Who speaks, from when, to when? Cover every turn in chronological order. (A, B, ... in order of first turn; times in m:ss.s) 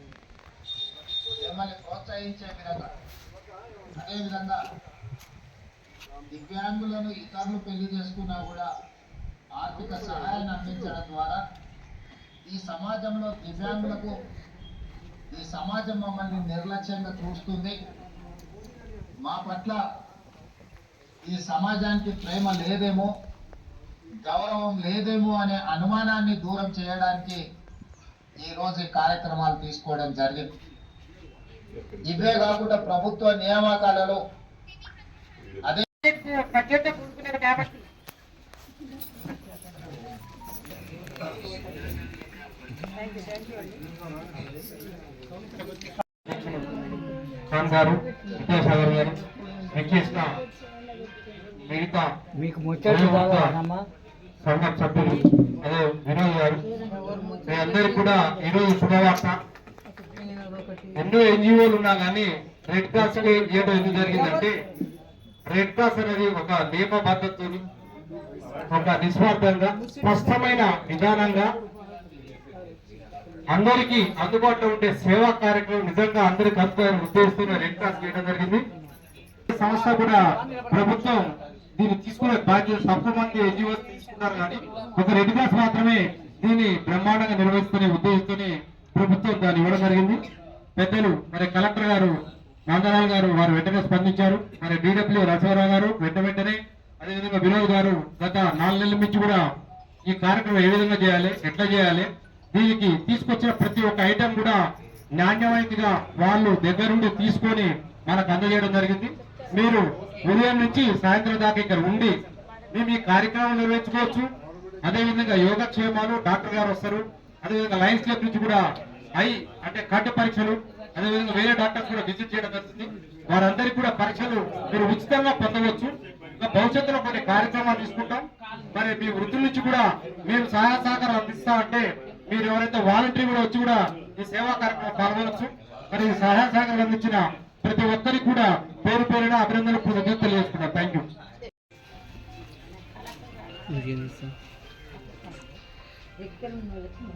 0:01.4-0:02.9 A
0:04.0-0:04.6 A
0:06.3-0:08.7 A
0:09.6-0:11.4 A
0:12.5-0:14.1 A
0:15.3-0:17.7 A
0:19.2-0:19.8 A
0:21.3-0:23.1 A
0:24.2-0:27.4 A
0:28.4-0:30.5 A
0:32.1-0:34.2 A
0:36.0-0:37.7 B
0:45.6-0:46.0 B
0:46.3-0:46.7 C
0:47.5-0:49.2 C
0:49.7-0:50.3 C
0:51.7-0:52.1 C
0:52.4-0:53.8 D
0:52.8-0:53.5 C
0:54.5-0:56.6 C
0:57.5-0:59.4 C
1:01.0-1:04.5 C
1:05.5-1:07.6 C
1:08.7-1:11.5 C
1:13.5-1:18.6 C
1:19.5-1:21.2 C
1:21.8-1:30.2 C
1:30.8-1:32.1 C
1:32.7-1:39.4 C
1:40.1-1:44.6 C
1:45.2-1:52.1 C
1:52.7-1:54.3 C
1:54.8-1:58.6 C
1:59.2-2:21.1 C
2:23.8-2:24.3 D